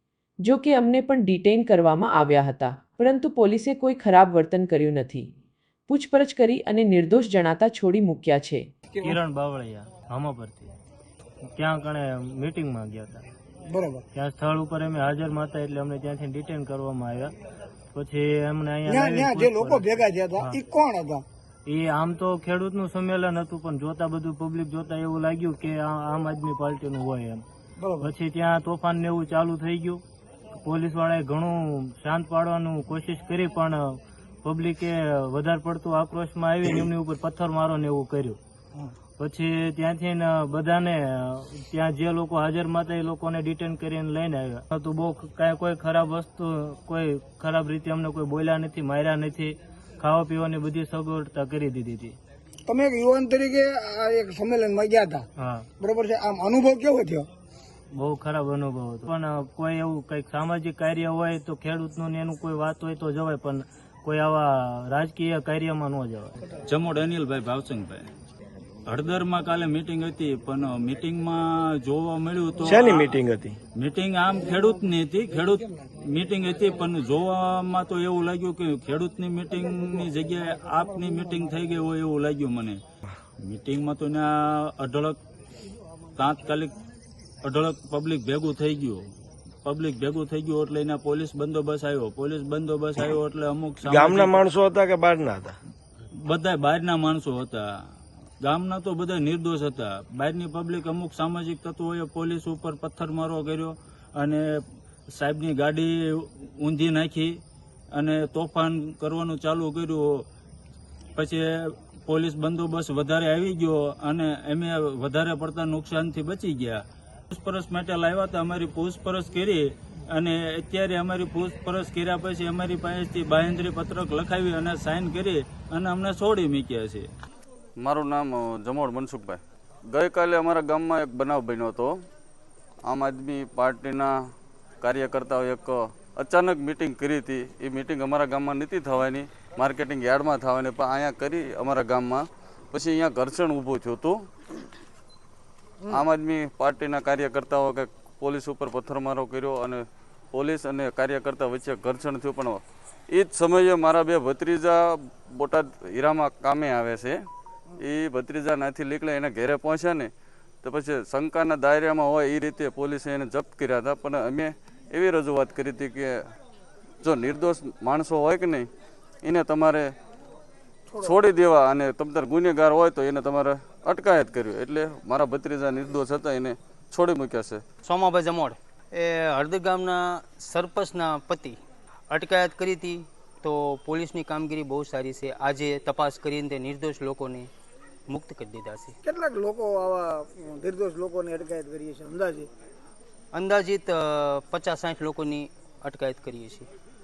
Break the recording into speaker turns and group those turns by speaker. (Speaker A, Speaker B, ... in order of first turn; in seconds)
Speaker A: 0.4-5.3, 5.9-8.6
Speaker B: 9.0-10.7, 11.5-13.2, 14.1-17.3, 17.9-20.6, 21.6-27.4, 28.0-30.0, 30.6-38.4, 39.2-52.2, 55.4-55.7, 57.9-66.3
Speaker C: 13.7-14.0, 18.9-21.2, 27.8-28.1, 52.7-55.2, 55.8-57.3, 189.0-192.5
Speaker D: 66.7-68.1, 68.9-73.2, 73.8-82.8, 83.4-85.2, 86.2-86.8, 87.4-89.0, 89.6-94.4, 96.2-97.7, 98.4-107.3, 107.9-110.2, 111.2-127.1
Speaker E: 72.6-73.6, 93.8-95.6
Speaker F: 127.8-131.9, 132.8-134.1, 134.8-144.2, 145.9-157.2, 157.8-160.1, 160.6-166.2, 167.0-168.7, 169.2-169.9, 171.0-177.6
Speaker G: 177.8-181.6, 182.1-187.5, 188.1-188.9, 193.3-196.7